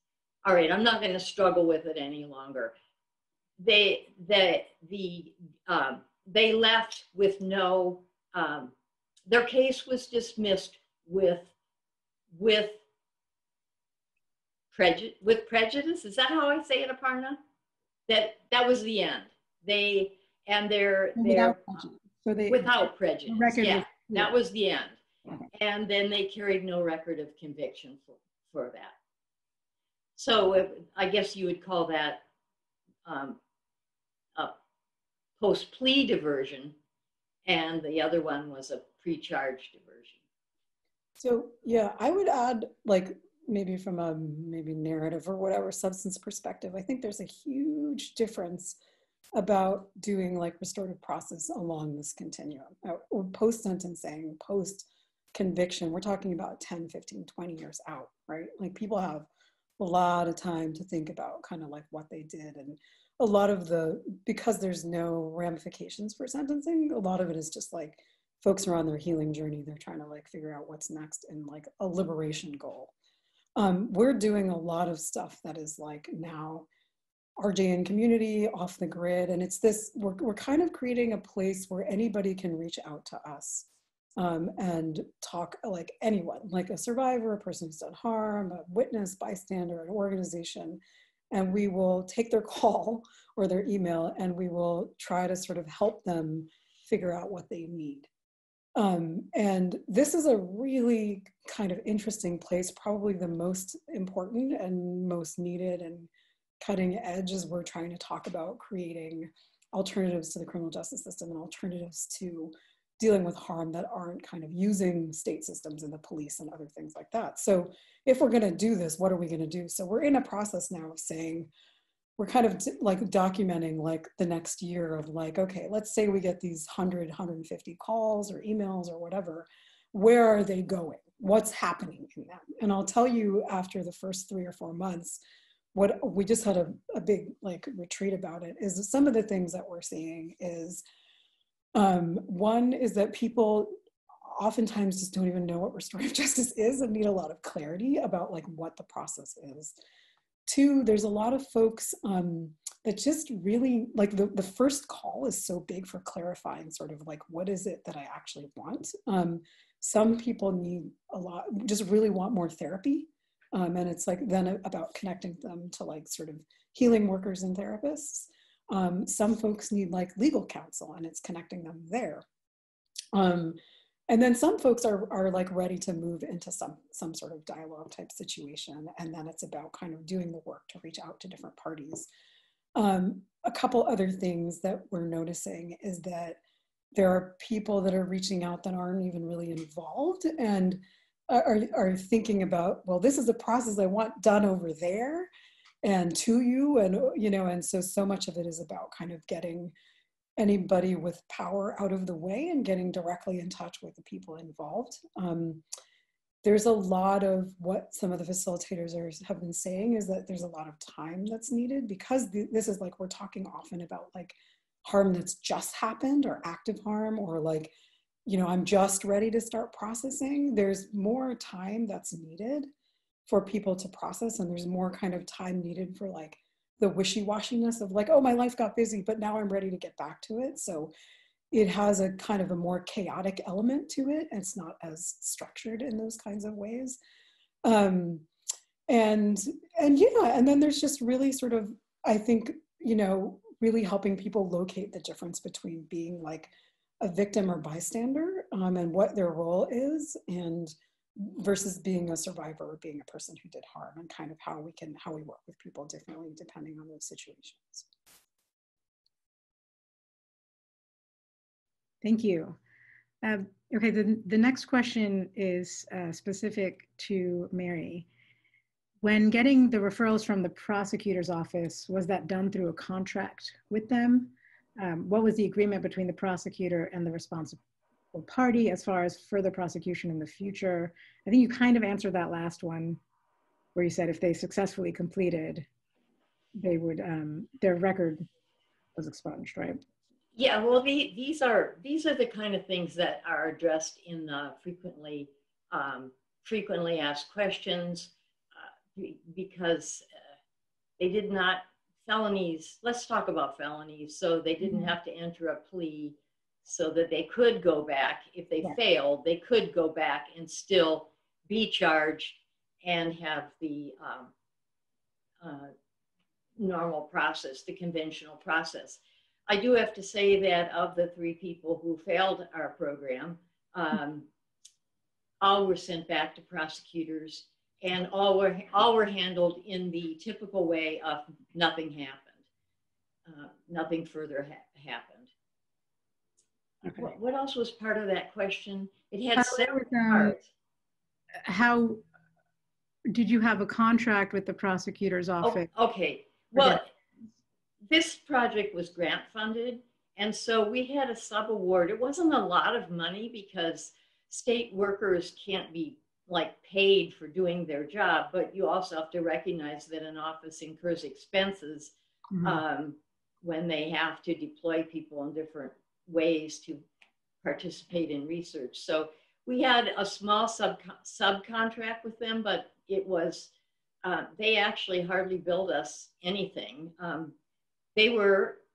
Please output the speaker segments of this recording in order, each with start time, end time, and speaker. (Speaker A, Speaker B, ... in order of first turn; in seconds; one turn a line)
Speaker A: 0.4-2.7
Speaker A: 3.6-8.7
Speaker A: 9.2-11.5
Speaker A: 12.3-12.8
Speaker A: 14.7-17.4
Speaker A: 18.1-21.6
Speaker B: 21.1-22.7
Speaker A: 22.5-25.0
Speaker B: 23.3-24.3
Speaker A: 25.5-28.9
Speaker A: 30.2-32.2
Speaker A: 33.0-33.4
Speaker A: 35.4-36.7
Speaker A: 37.5-40.2
Speaker C: 41.2-48.8
Speaker C: 49.3-59.3
Speaker C: 59.8-72.9
Speaker C: 73.6-76.7
Speaker C: 77.4-90.8
Speaker C: 91.3-98.1
Speaker C: 98.8-121.5
Speaker C: 122.2-135.2
Speaker C: 135.7-140.8
Speaker C: 141.7-149.7
Speaker C: 150.5-172.2
Speaker C: 173.1-173.6
Speaker C: 174.1-182.1
Speaker C: 182.8-186.4
Speaker C: 186.9-195.3
Speaker C: 195.8-199.7
Speaker C: 200.4-205.6
Speaker C: 206.4-217.7
Speaker C: 218.2-222.7
Speaker C: 223.3-230.9
Speaker C: 231.5-237.0
Speaker C: 237.6-238.3
Speaker C: 238.9-257.9
Speaker B: 262.0-262.6
Speaker B: 263.2-268.1
Speaker B: 269.0-277.6
Speaker B: 278.1-283.0
Speaker B: 283.7-285.7
Speaker B: 286.6-288.2
Speaker B: 288.9-289.8
Speaker A: 290.3-298.1
Speaker A: 298.9-300.0
Speaker A: 301.0-314.3
Speaker B: 304.6-304.9
Speaker A: 315.4-315.7
Speaker A: 316.6-324.3
Speaker A: 325.4-332.4
Speaker A: 333.2-335.3
Speaker B: 336.8-337.1
Speaker A: 337.0-340.5
Speaker B: 339.3-340.4
Speaker B: 341.4-342.0
Speaker B: 343.1-345.7
Speaker A: 345.4-346.9
Speaker A: 347.9-366.8
Speaker B: 362.3-362.6
Speaker A: 367.4-373.5
Speaker A: 374.0-377.3
Speaker A: 377.9-378.6